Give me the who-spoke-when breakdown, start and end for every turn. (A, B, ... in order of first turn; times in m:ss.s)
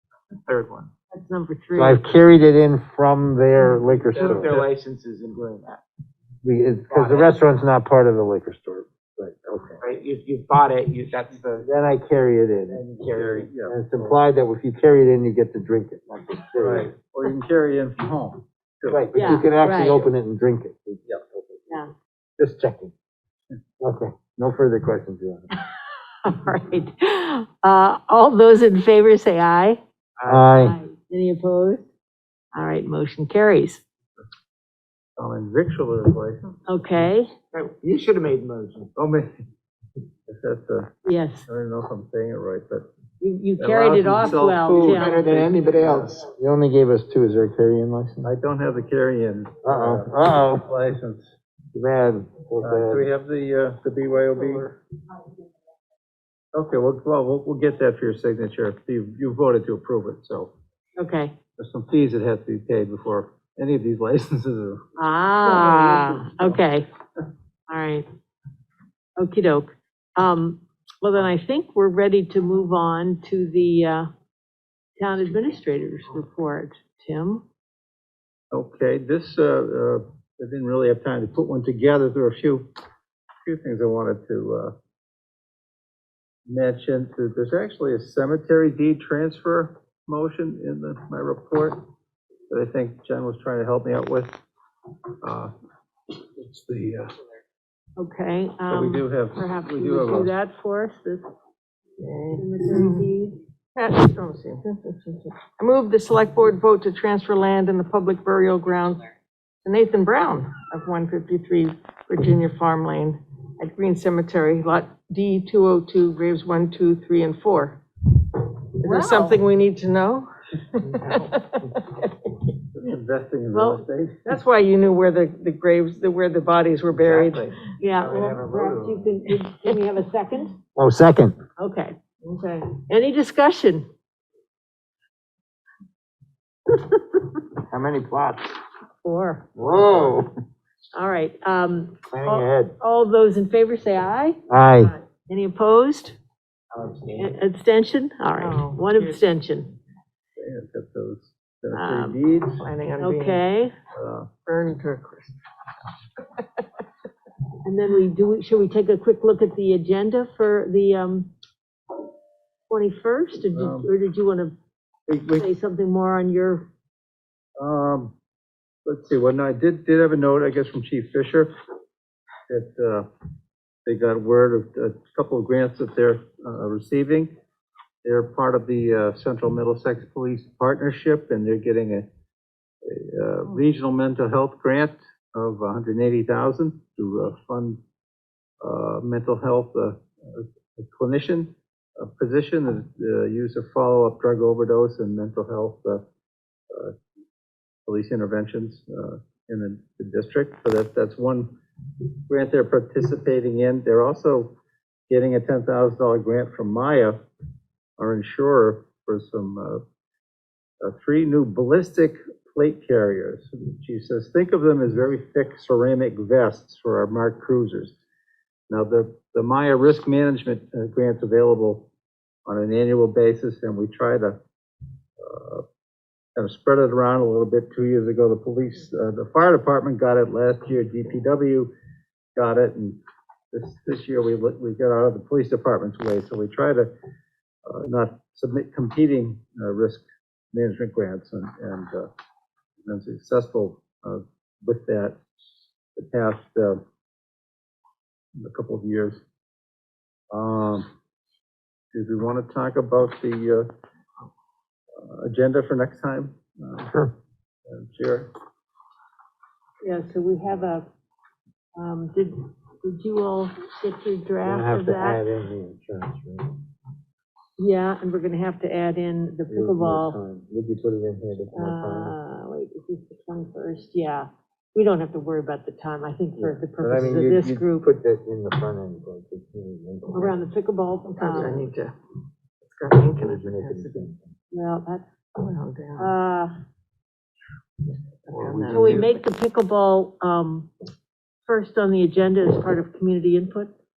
0:00.5-0:00.9 A
0:01.1-0:02.1 B
0:01.8-0:04.5 C
0:04.0-0:05.8 A
0:04.3-0:04.7 D
0:06.4-0:09.8 C
0:06.9-0:07.4 A
0:09.8-0:11.6 A
0:11.6-0:12.8 C
0:12.7-0:13.5 A
0:13.1-0:14.2 D
0:13.7-0:16.9 C
0:16.6-0:19.5 D
0:18.9-0:21.6 C
0:19.2-0:20.0 B
0:22.4-0:22.9 C
0:23.8-0:25.5 C
0:26.2-0:29.8 B
0:30.2-0:30.5 A
0:30.3-0:30.8 C
0:30.6-0:31.8 B
0:32.5-0:33.8 B
0:35.2-0:36.4 D
0:36.7-0:37.3 B
0:37.5-0:38.9 A
0:39.0-0:39.3 D
0:40.3-0:40.9 D
0:41.0-0:41.4 B
0:41.5-0:42.9 D
0:43.2-0:45.2 B
0:43.6-0:46.2 D
0:44.6-0:46.2 A
0:46.2-0:48.3 C
0:48.2-0:51.3 D
0:49.6-0:50.7 C
0:51.7-0:53.0 C
0:52.6-0:54.8 D
0:56.5-1:00.5 D
1:01.0-1:01.3 B
1:01.6-1:04.8 D
1:05.0-1:06.9 B
1:05.4-1:06.6 D
1:07.7-1:08.1 B
1:09.2-1:14.1 B
1:15.0-1:17.4 B
1:18.5-1:22.7 D
1:23.4-1:24.7 D
1:26.5-1:31.8 D
1:32.5-1:34.3 D
1:35.2-1:35.5 D
1:36.4-1:37.2 D
1:38.0-1:41.3 B
1:38.7-1:40.3 D
1:42.0-1:43.0 E
1:42.3-1:43.4 B
1:43.8-1:49.1 E
1:49.6-1:57.8 E
1:58.3-2:02.6 E
1:58.8-1:59.4 B
2:02.7-2:04.2 D
2:03.5-2:03.8 B
2:04.2-2:07.7 E
2:07.8-2:10.5 B
2:08.0-2:08.9 D
2:10.8-2:11.4 C
2:11.6-2:12.0 B
2:12.2-2:12.7 E
2:12.7-2:13.9 B
2:17.7-2:18.4 C
2:19.0-2:19.5 B
2:19.6-2:20.3 C
2:20.9-2:26.2 B
2:22.1-2:22.7 C
2:24.5-2:24.9 C
2:26.7-2:27.3 A
2:27.1-2:29.7 B
2:28.4-2:29.2 E
2:30.4-2:32.6 D
2:31.7-2:32.2 B
2:32.6-2:33.5 E
2:33.0-2:33.7 B
2:33.9-2:34.3 D
2:34.5-2:35.4 E
2:36.2-2:36.6 E
2:37.6-2:41.3 B
2:42.7-2:44.5 B
2:43.5-2:43.9 D
2:45.1-2:45.5 D
2:45.3-2:46.7 B
2:47.6-2:48.1 D
2:48.9-2:51.5 D
2:52.5-2:53.1 D
2:53.9-2:57.3 D
2:58.0-3:02.1 D
3:02.8-3:07.8 D
3:08.6-3:16.0 D
3:16.7-3:17.0 D
3:17.9-3:21.5 D
3:22.3-3:24.5 D
3:25.1-3:27.2 D
3:28.0-3:29.8 D
3:30.8-3:38.0 D
3:38.7-3:41.9 D
3:42.5-3:44.4 D
3:45.2-3:45.6 D
3:46.4-3:51.7 D
3:52.4-3:53.0 D
3:53.5-3:56.9 D
3:57.7-4:02.1 D
4:02.8-4:05.2 D
4:06.0-4:06.8 D
4:08.4-4:09.2 D
4:10.3-4:10.9 D
4:11.9-4:13.7 D
4:15.0-4:16.9 D
4:17.7-4:18.3 D
4:19.8-4:20.8 B
4:21.8-4:25.2 B
4:24.4-4:26.6 C
4:27.6-4:30.2 B
4:29.5-4:32.2 C
4:31.5-4:37.9 B
4:36.4-4:40.4 C
4:40.1-4:41.7 B
4:41.1-4:41.9 E
4:42.6-4:44.1 E
4:43.2-4:44.3 C
4:44.5-4:45.1 B
4:45.4-4:46.1 E
4:46.0-4:46.5 B
4:48.3-4:49.0 E
4:48.3-4:49.1 C
4:48.6-4:49.0 D
4:48.7-4:50.7 B
4:51.5-4:53.7 B